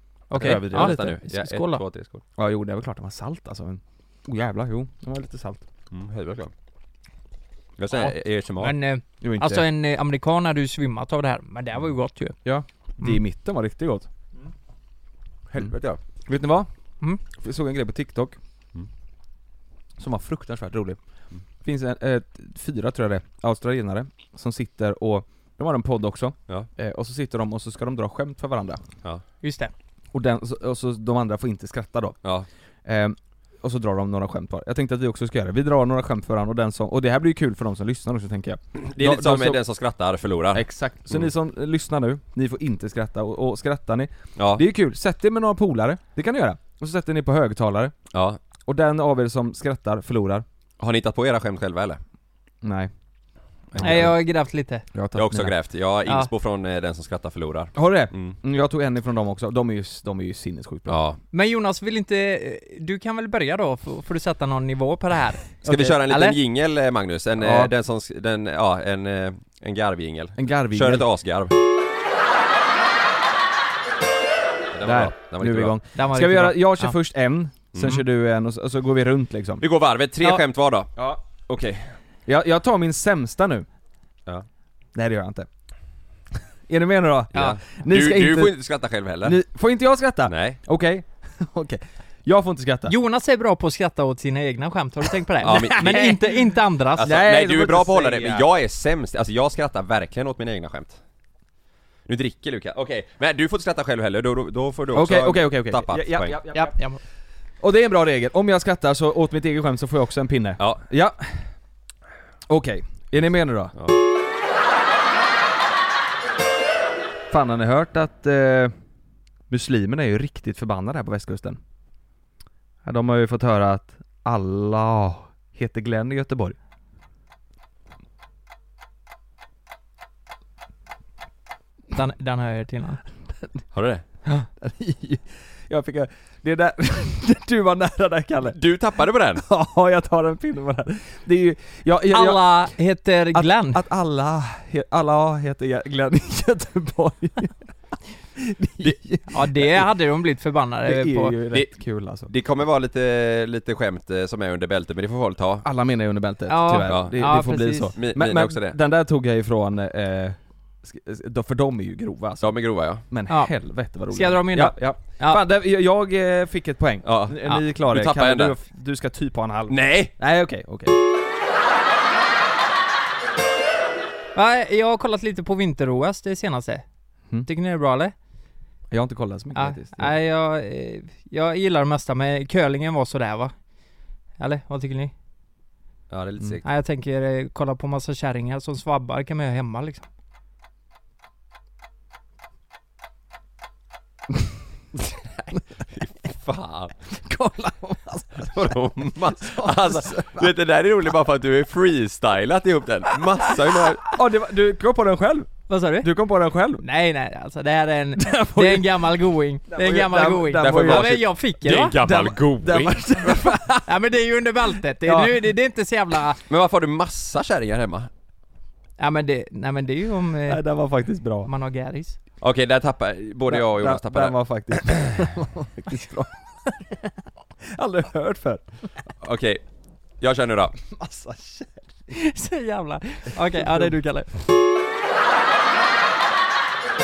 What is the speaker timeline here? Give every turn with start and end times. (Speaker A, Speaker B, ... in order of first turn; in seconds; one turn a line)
Speaker A: 0.3-1.8
Speaker B: 0.3-1.2
Speaker C: 0.3-2.2
Speaker B: 2.4-5.6
Speaker C: 5.9-6.5
Speaker C: 7.8-8.8
Speaker A: 7.9-12.4
Speaker B: 9.2-9.6
Speaker B: 12.4-14.1
Speaker C: 15.5-16.0
Speaker B: 16.2-16.7
Speaker B: 17.3-18.4
Speaker B: 20.0-21.0
Speaker B: 21.6-28.8
Speaker A: 29.4-29.7
Speaker B: 30.1-32.2
Speaker B: 32.9-39.6
Speaker C: 38.8-40.6
Speaker B: 40.5-48.0
Speaker C: 44.4-44.6
Speaker C: 48.1-48.4
Speaker B: 48.6-50.5
Speaker C: 50.8-52.0
Speaker B: 52.6-52.9
Speaker C: 53.7-54.1
Speaker B: 53.7-54.1
Speaker A: 53.8-54.9
Speaker B: 54.9-55.5
Speaker C: 55.1-58.4
Speaker B: 57.8-61.0
Speaker C: 60.9-61.2
Speaker A: 61.3-66.4
Speaker C: 65.6-71.5
Speaker B: 67.4-67.7
Speaker B: 70.4-71.1
Speaker C: 74.7-75.8
Speaker B: 74.8-79.6
Speaker A: 76.0-77.0
Speaker C: 77.7-78.0
Speaker C: 79.6-80.9
Speaker B: 81.0-83.7
Speaker B: 85.0-85.5
Speaker B: 86.7-88.6
Speaker C: 87.3-89.4
Speaker B: 89.2-92.9
Speaker C: 90.3-90.6
Speaker A: 92.9-97.1
Speaker C: 95.4-96.1
Speaker B: 95.5-98.5
Speaker C: 97.0-101.0
Speaker C: 102.1-106.4
Speaker B: 104.9-106.8
Speaker A: 106.5-107.0
Speaker B: 107.6-111.4
Speaker B: 112.5-113.7
Speaker B: 117.3-118.7
Speaker B: 119.5-121.6
Speaker B: 122.8-126.6
Speaker A: 131.9-133.0
Speaker C: 133.7-134.0
Speaker B: 134.2-138.6
Speaker C: 138.5-139.4
Speaker B: 139.3-142.8
Speaker A: 142.1-143.8
Speaker B: 143.3-147.7
Speaker B: 148.4-149.7
Speaker A: 149.3-151.4
Speaker B: 150.8-152.3
Speaker C: 152.3-155.7
Speaker B: 155.6-171.0
Speaker A: 156.5-157.9
Speaker C: 156.9-157.3
Speaker C: 157.9-158.8
Speaker C: 162.4-163.0
Speaker A: 164.1-165.4
Speaker C: 167.0-168.5
Speaker C: 169.7-170.1
Speaker A: 174.3-176.8
Speaker A: 177.4-178.1
Speaker B: 178.9-180.2
Speaker A: 179.6-183.5
Speaker A: 184.4-185.1
Speaker C: 186.1-186.7
Speaker A: 186.6-190.1
Speaker C: 195.4-197.0
Speaker B: 197.1-200.5
Speaker C: 198.4-204.1
Speaker B: 204.1-206.8
Speaker A: 205.7-206.1
Speaker A: 206.8-212.0
Speaker B: 208.2-209.1
Speaker B: 209.7-211.2
Speaker C: 210.6-213.0
Speaker B: 212.0-213.9
Speaker A: 213.9-216.4
Speaker B: 215.0-215.5
Speaker C: 216.5-218.1
Speaker A: 219.0-220.6
Speaker B: 220.5-221.5
Speaker A: 221.5-222.2
Speaker C: 222.4-225.0
Speaker B: 223.5-226.7
Speaker B: 227.6-228.7
Speaker C: 229.2-229.6
Speaker C: 230.2-230.8
Speaker B: 230.9-231.9
Speaker A: 232.1-234.4
Speaker B: 233.5-233.9